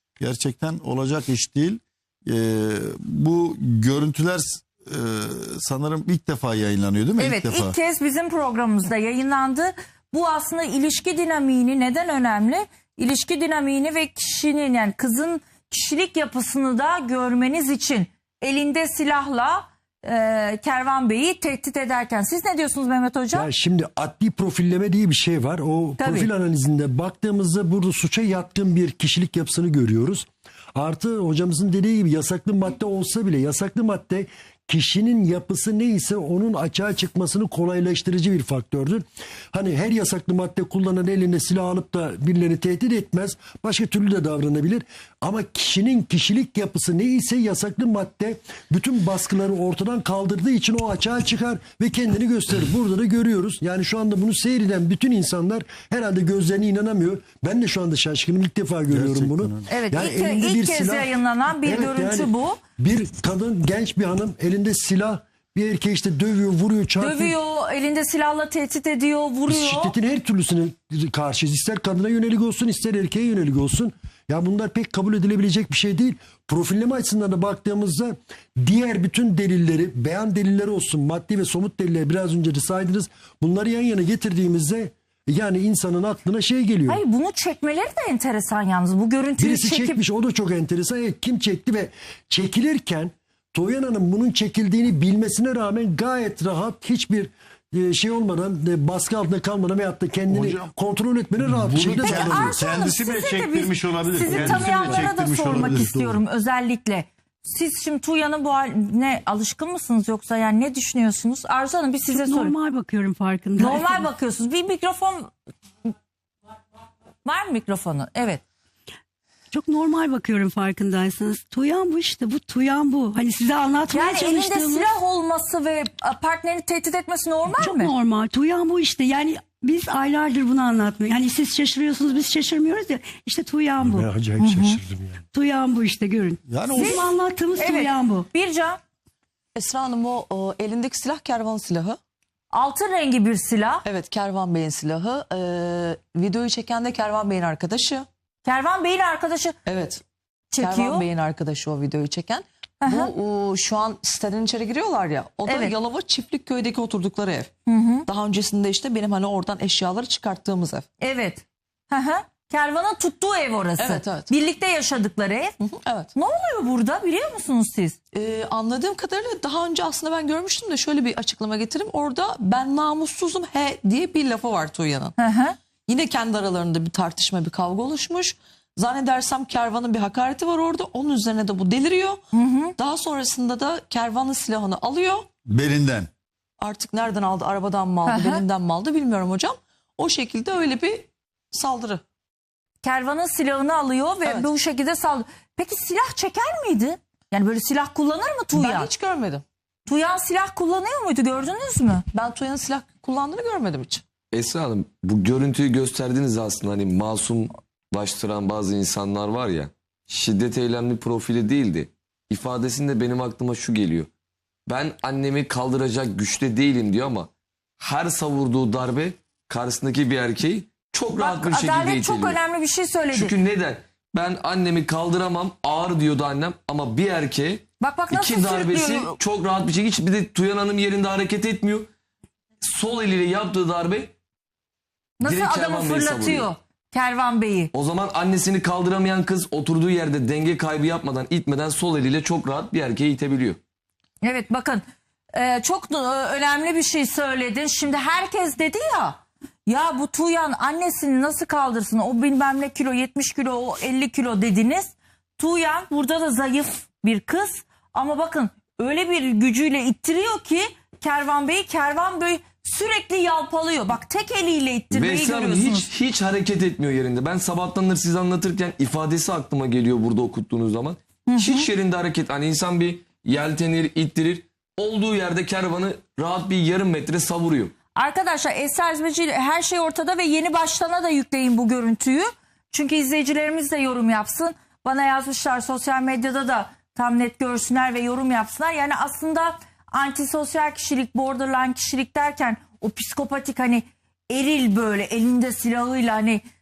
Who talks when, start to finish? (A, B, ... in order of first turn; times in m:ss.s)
0:00.2-0:07.8 A
0:07.2-0:23.5 B
0:23.3-1:07.4 C
0:26.0-0:26.3 B
0:58.9-0:59.7 A
0:59.7-1:02.6 B
1:07.0-1:10.0 B
1:09.5-1:27.0 C
1:26.9-1:30.0 B
1:29.4-1:42.6 C
1:40.3-1:40.7 A
1:41.4-1:46.2 A
1:42.0-1:52.6 B
1:52.1-1:54.1 D
1:53.6-1:55.3 B
1:57.2-1:58.4 B
1:59.5-2:04.9 D
2:03.9-2:07.9 B
2:07.6-2:14.1 D
2:14.0-2:15.2 C
2:14.4-2:14.8 B
2:15.3-2:18.3 D
2:16.5-2:17.1 A
2:16.8-2:18.8 B
2:19.6-2:22.0 E
2:22.5-2:23.8 B
2:23.8-2:28.1 E
2:28.4-2:29.6 B
2:29.7-2:30.0 E
2:30.5-2:31.1 B
2:30.6-2:37.5 E
2:32.8-2:33.1 B
2:35.5-2:35.7 B
2:37.7-2:38.1 B
2:38.1-2:40.9 E
2:41.0-2:45.6 B
2:43.8-2:44.3 E
2:45.6-2:46.1 E
2:46.2-2:48.0 B
2:48.1-2:55.2 E
2:55.2-2:55.6 B
2:55.9-3:02.2 E
3:02.3-3:02.7 B
3:02.8-3:05.3 E
3:05.5-3:06.1 A
3:06.6-3:12.0 E
3:08.1-3:08.4 B
3:12.8-3:18.9 B
3:14.2-3:14.5 E
3:18.5-3:19.4 E
3:19.9-3:22.0 B
3:22.1-3:24.0 E
3:24.3-3:34.1 F
3:34.7-3:42.4 F
3:41.2-3:43.3 B
3:43.1-3:51.9 F
3:47.8-3:49.2 B
3:52.6-3:54.1 F
3:55.2-3:57.7 B
3:55.2-3:56.5 F
3:57.7-4:03.6 F
4:04.2-4:04.8 B
4:05.3-4:25.9 B
4:24.9-4:37.7 F
4:31.3-4:31.7 B
4:38.0-4:56.4 B